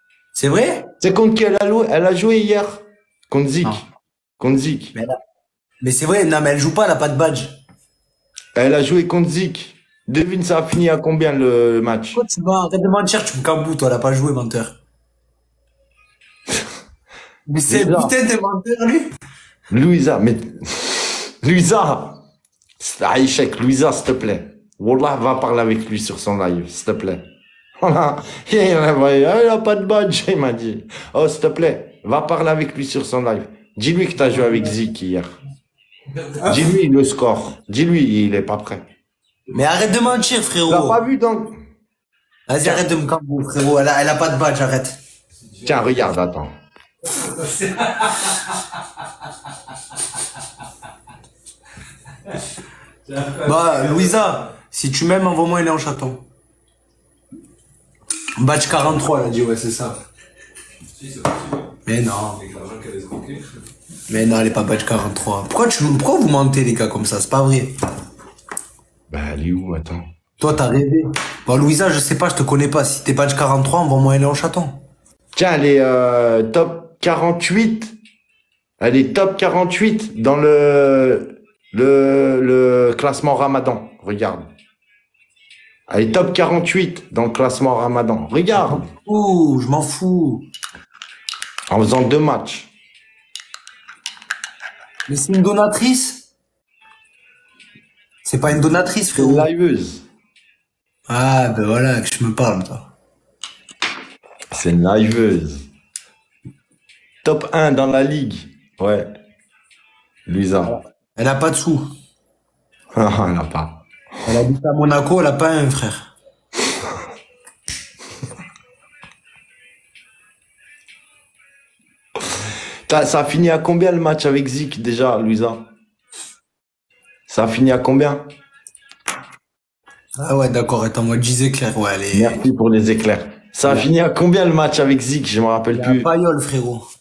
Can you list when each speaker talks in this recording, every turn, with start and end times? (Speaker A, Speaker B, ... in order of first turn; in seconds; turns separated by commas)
Speaker A: 0.3-0.9, Speaker B: 1.0-3.8, Speaker B: 4.4-5.0, Speaker A: 5.8-7.6, Speaker B: 8.5-12.2, Speaker A: 12.1-14.8, Speaker A: 17.5-19.1, Speaker B: 17.7-18.1, Speaker B: 19.7-22.2, Speaker B: 22.8-27.2, Speaker B: 27.8-35.3, Speaker A: 34.4-34.6, Speaker B: 36.4-38.9, Speaker C: 39.5-40.1, Speaker A: 39.5-41.0, Speaker B: 40.7-41.6, Speaker A: 42.5-45.0, Speaker C: 45.4-46.0, Speaker B: 45.6-46.5, Speaker C: 47.0-48.5, Speaker C: 53.0-54.5, Speaker A: 53.4-56.2, Speaker A: 58.4-60.0, Speaker C: 60.9-61.8, Speaker A: 61.8-62.4, Speaker C: 62.3-63.6, Speaker A: 64.1-67.7, Speaker B: 69.1-70.1, Speaker A: 70.4-74.8, Speaker B: 75.4-78.0, Speaker B: 78.8-84.5, Speaker B: 85.9-88.9, Speaker A: 88.7-90.5, Speaker B: 91.7-92.7, Speaker A: 95.1-96.3, Speaker A: 98.2-99.5, Speaker B: 99.1-100.0, Speaker A: 101.1-102.9, Speaker B: 104.5-105.6, Speaker B: 107.2-109.1, Speaker B: 110.2-110.8, Speaker A: 110.6-111.9, Speaker B: 112.9-113.8, Speaker A: 114.2-116.1, Speaker B: 122.9-125.7, Speaker B: 127.3-128.3, Speaker A: 130.1-132.4, Speaker B: 132.1-136.1, Speaker A: 135.7-136.9